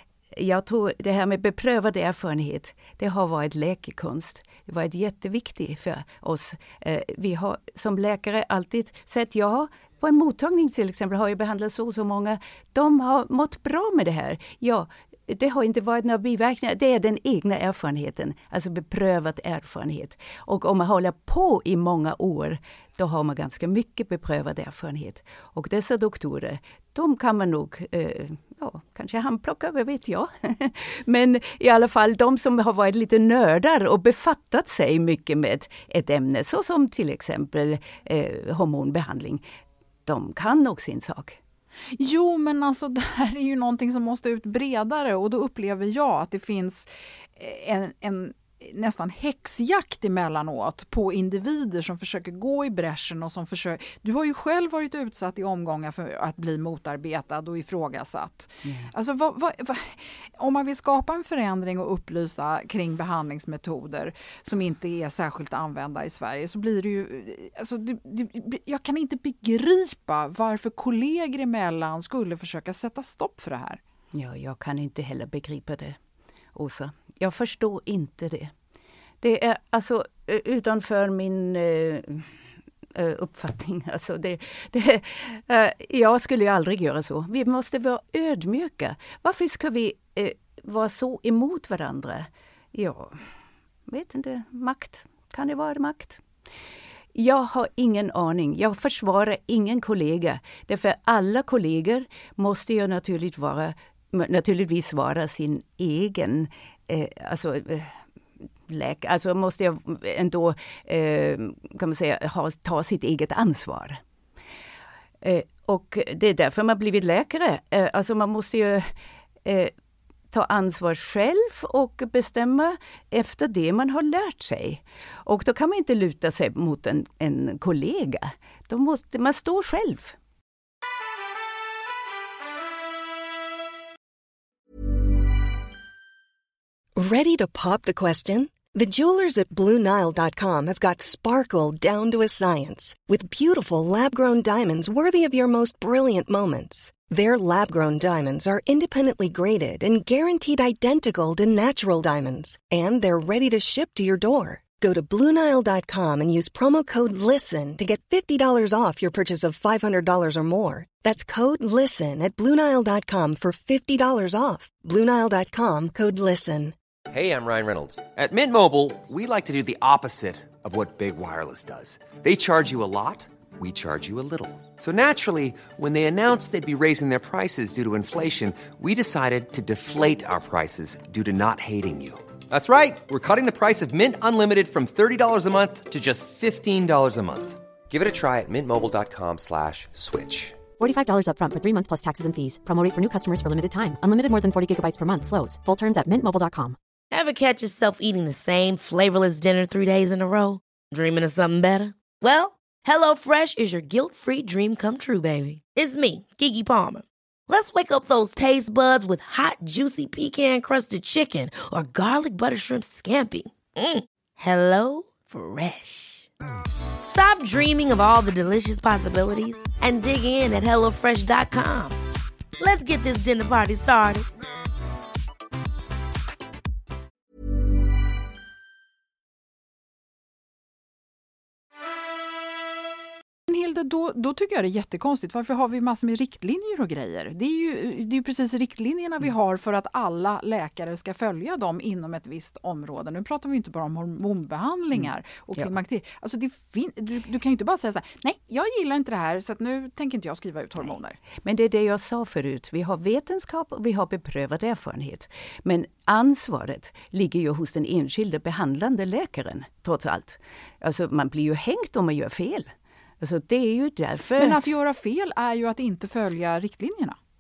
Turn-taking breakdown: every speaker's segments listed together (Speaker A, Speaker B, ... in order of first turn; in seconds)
Speaker A: 0.3-39.4, 40.1-41.4, 58.6-58.9, 74.1-76.0, 76.5-78.5, 79.2-82.3, 82.9-93.3, 93.9-96.2, 97.1-108.0, 108.7-114.0, 115.2-118.9, 119.4-119.7, 120.3-130.2, 245.0-245.7, 251.4-262.7, 263.2-264.6
Speaker B: 41.9-73.8, 233.5-251.2, 264.4-267.2
Speaker C: 137.0-166.8
Speaker D: 167.1-190.7
Speaker E: 190.8-196.8
Speaker F: 197.1-216.3, 217.1-222.0, 222.6-224.3